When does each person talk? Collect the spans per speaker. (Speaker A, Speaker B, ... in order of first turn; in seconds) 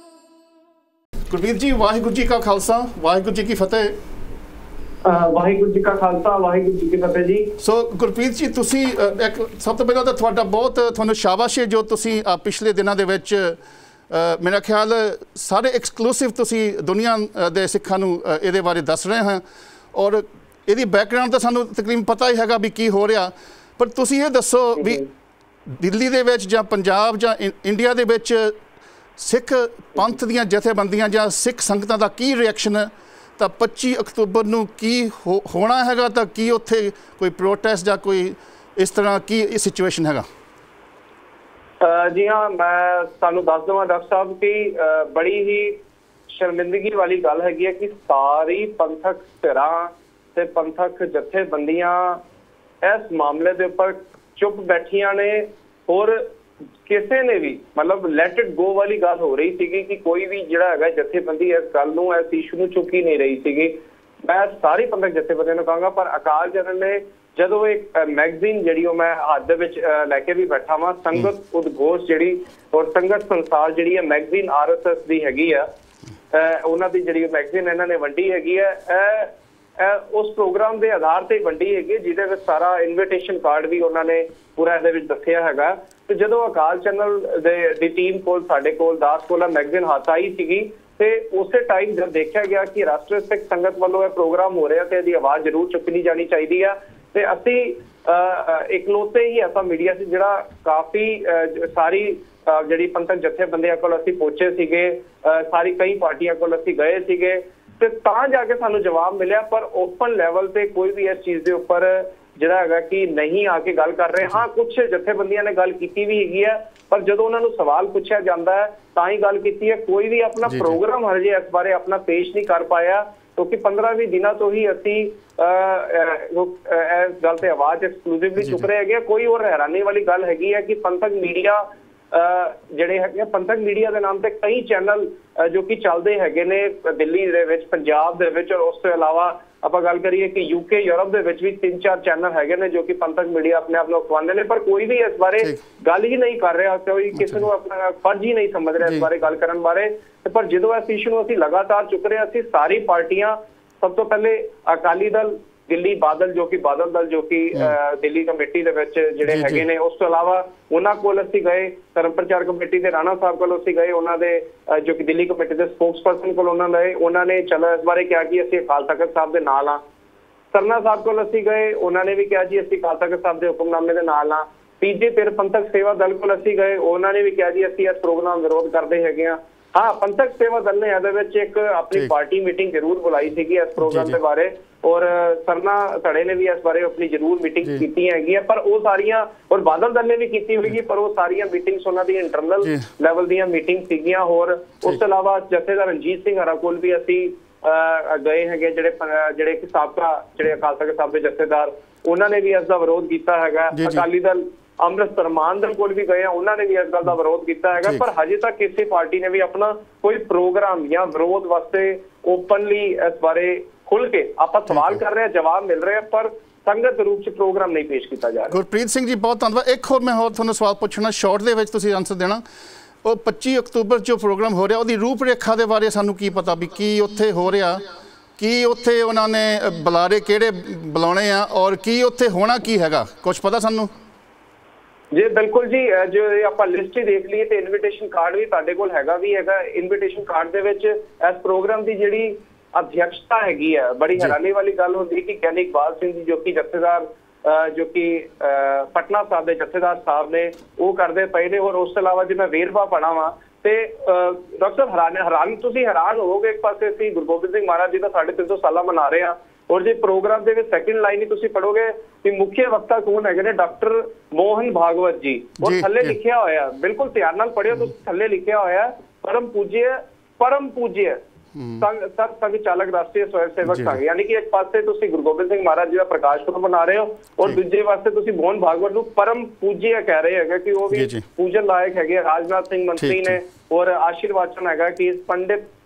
Speaker A: 1.3-4.0, 7.6-13.6, 14.1-25.1, 25.7-28.6, 29.2-40.2, 120.5-120.8, 159.3-159.6, 183.8-184.2, 203.7-204.0, 214.7-215.0, 218.5-222.4, 223.0-227.9, 228.4-233.9, 265.6-266.1, 271.6-271.8, 273.6-274.0, 280.9-281.2, 283.0-283.4
Speaker B: 5.0-7.5, 41.8-45.8, 46.3-52.2, 52.8-56.3, 56.9-63.7, 64.2-75.7, 76.3-169.8, 170.5-218.6, 235.1-271.2, 271.8-285.6